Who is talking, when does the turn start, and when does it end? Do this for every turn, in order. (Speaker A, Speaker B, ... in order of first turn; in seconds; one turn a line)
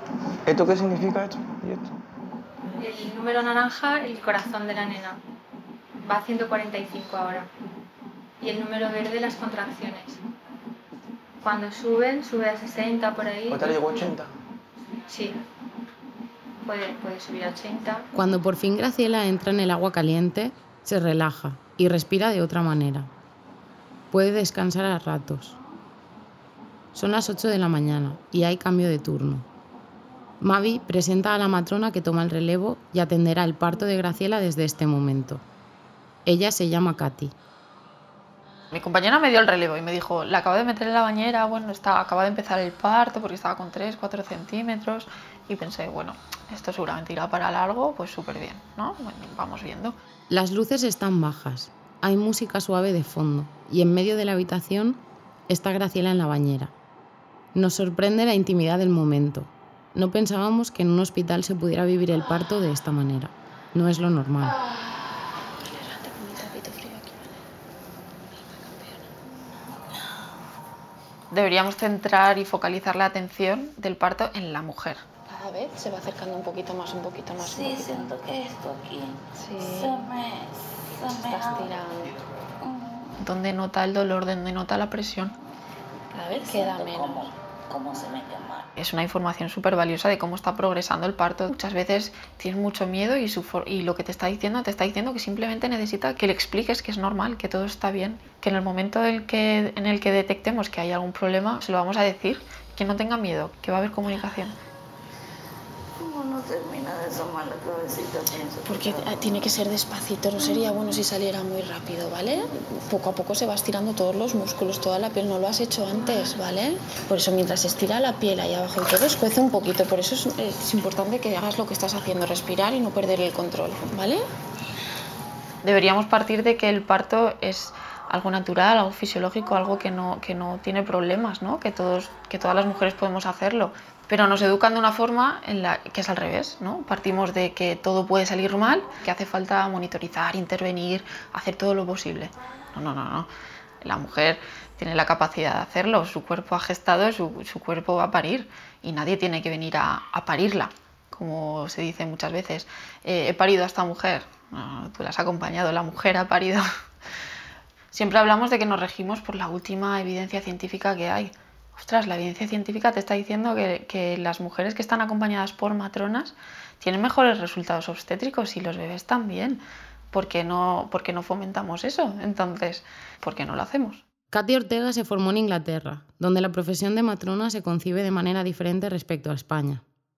Speaker A: 0.4-1.9
Speaker B: 2.8-5.2
Speaker B: 6.0-7.5
Speaker B: 8.4-10.2
Speaker B: 11.4-14.0
Speaker A: 13.5-14.3
Speaker B: 15.1-15.4
Speaker B: 16.6-18.1
Speaker C: 18.1-23.1
Speaker C: 24.1-25.6
Speaker C: 26.9-29.4
Speaker C: 30.4-35.4
Speaker C: 36.2-37.3
Speaker D: 38.7-50.0
Speaker C: 50.3-56.7
Speaker C: 57.5-64.5
Speaker E: 64.7-67.4
Speaker E: 68.3-69.1
Speaker D: 71.3-75.0
Speaker E: 75.3-78.1
Speaker F: 77.4-81.7
Speaker E: 79.4-80.1
Speaker E: 81.0-82.2
Speaker D: 83.2-85.3
Speaker E: 86.1-87.3
Speaker F: 86.3-88.7
Speaker D: 88.8-104.6
Speaker F: 106.0-109.1
Speaker E: 108.6-124.2
Speaker D: 125.6-143.3
Speaker D: 143.8-156.6
Speaker D: 157.9-174.0
Speaker C: 174.3-179.8